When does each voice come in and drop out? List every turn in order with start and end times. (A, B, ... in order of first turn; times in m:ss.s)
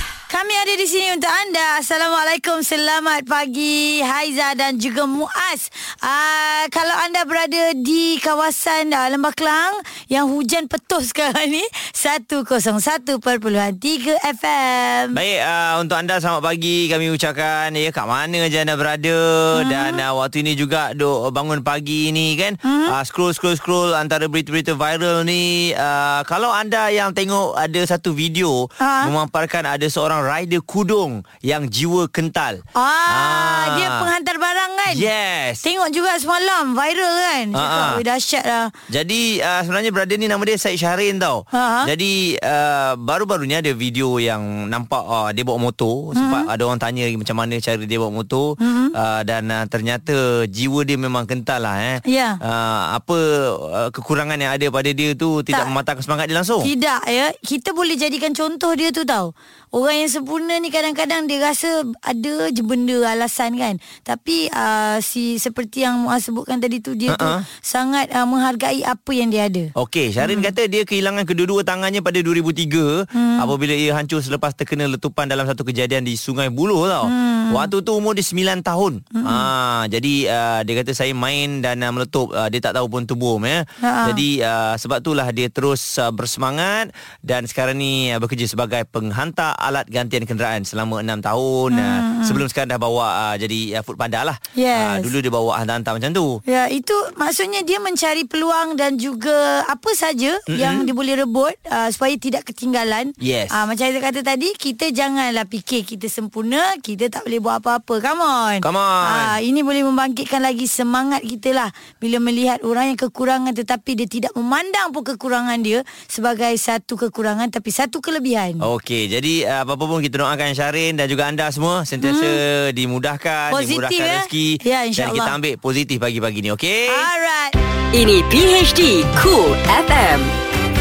0:00.3-0:15.2 A
0:15.1-0:34.1 B
0:19.6-0:20.0 A
0:22.6-0:23.0 A
0:28.8-0:29.1 A
0:32.8-0:35.1 A
0:34.9-0:35.6 B
0:35.6-0:38.7 A
0:37.5-0:38.0 B
0:38.9-0:56.7 B
0:41.5-0:41.9 A
0:46.2-0:46.5 A
0:48.6-0:48.9 A
0:52.1-0:52.4 A
0:56.6-1:09.7 A
1:07.1-1:07.4 B
1:09.8-1:36.4 B
1:10.2-1:10.5 A
1:13.1-1:13.5 A
1:17.0-1:17.7 A
1:19.2-1:19.5 A
1:23.8-1:24.2 A
1:31.7-1:32.4 A
1:34.6-1:35.1 A
1:36.5-1:58.6 A
1:40.5-1:40.9 B
1:43.2-1:43.6 B
1:48.6-1:49.4 B
1:58.6-2:07.1 B
2:02.0-2:02.4 A
2:03.5-2:05.4 A
2:06.9-2:07.6 A
2:07.9-2:10.3 C